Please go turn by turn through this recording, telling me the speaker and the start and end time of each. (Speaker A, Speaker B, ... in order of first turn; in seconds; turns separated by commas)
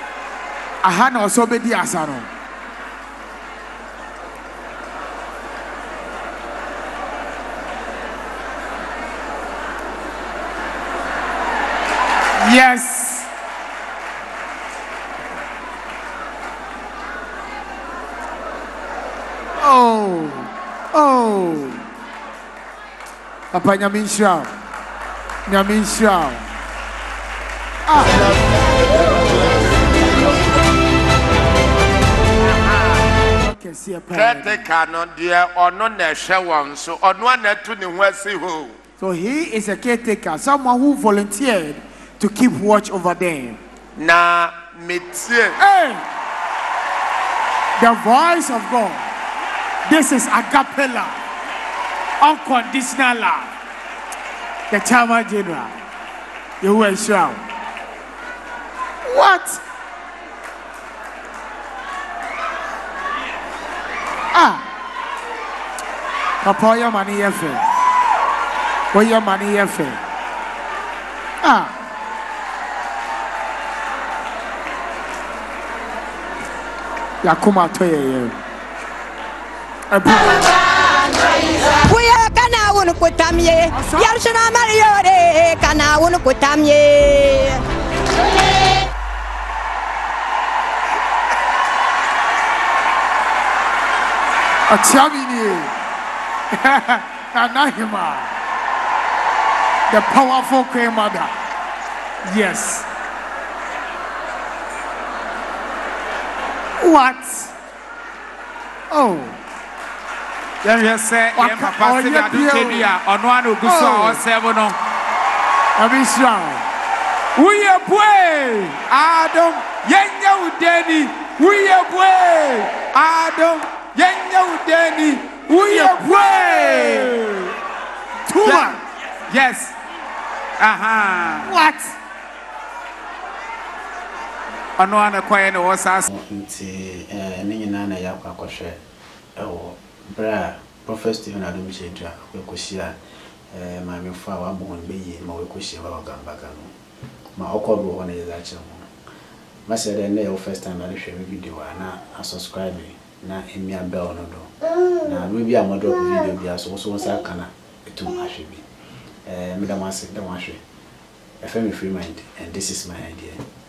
Speaker A: 0.8-2.3, Speaker A: 12.4-13.3, Speaker A: 19.6-21.8, Speaker A: 23.5-24.5, Speaker A: 25.5-26.4, Speaker A: 27.9-28.3, Speaker B: 28.1-30.4, Speaker B: 32.6-32.9, Speaker A: 33.4-34.6, Speaker B: 34.1-38.7, Speaker A: 39.0-43.6, Speaker B: 44.0-45.6, Speaker A: 45.6-46.0, Speaker A: 47.8-49.0, Speaker A: 49.9-51.2, Speaker A: 52.2-53.5, Speaker A: 54.7-55.7, Speaker A: 56.6-57.4, Speaker A: 59.0-59.6, Speaker A: 64.3-64.6, Speaker A: 66.4-67.6, Speaker A: 68.9-70.0, Speaker A: 71.4-71.7, Speaker A: 77.2-78.3, Speaker A: 79.9-80.5, Speaker C: 81.8-87.6, Speaker A: 83.7-84.3, Speaker A: 94.7-95.7, Speaker A: 96.5-98.3, Speaker A: 99.9-101.3, Speaker A: 102.3-102.9, Speaker A: 106.8-107.5, Speaker A: 108.9-109.4, Speaker D: 110.6-114.8, Speaker A: 111.4-112.9, Speaker A: 113.6-114.2, Speaker A: 115.8-116.6, Speaker D: 117.4-127.3, Speaker A: 125.6-127.5, Speaker A: 128.3-128.8, Speaker D: 128.4-128.8, Speaker D: 129.3-129.8, Speaker D: 130.6-131.5, Speaker A: 131.2-131.9, Speaker D: 134.8-136.1, Speaker E: 136.1-138.8, Speaker E: 139.4-143.0, Speaker E: 143.5-146.7, Speaker E: 147.4-148.9, Speaker E: 149.7-158.7, Speaker E: 159.3-160.6, Speaker E: 161.4-163.4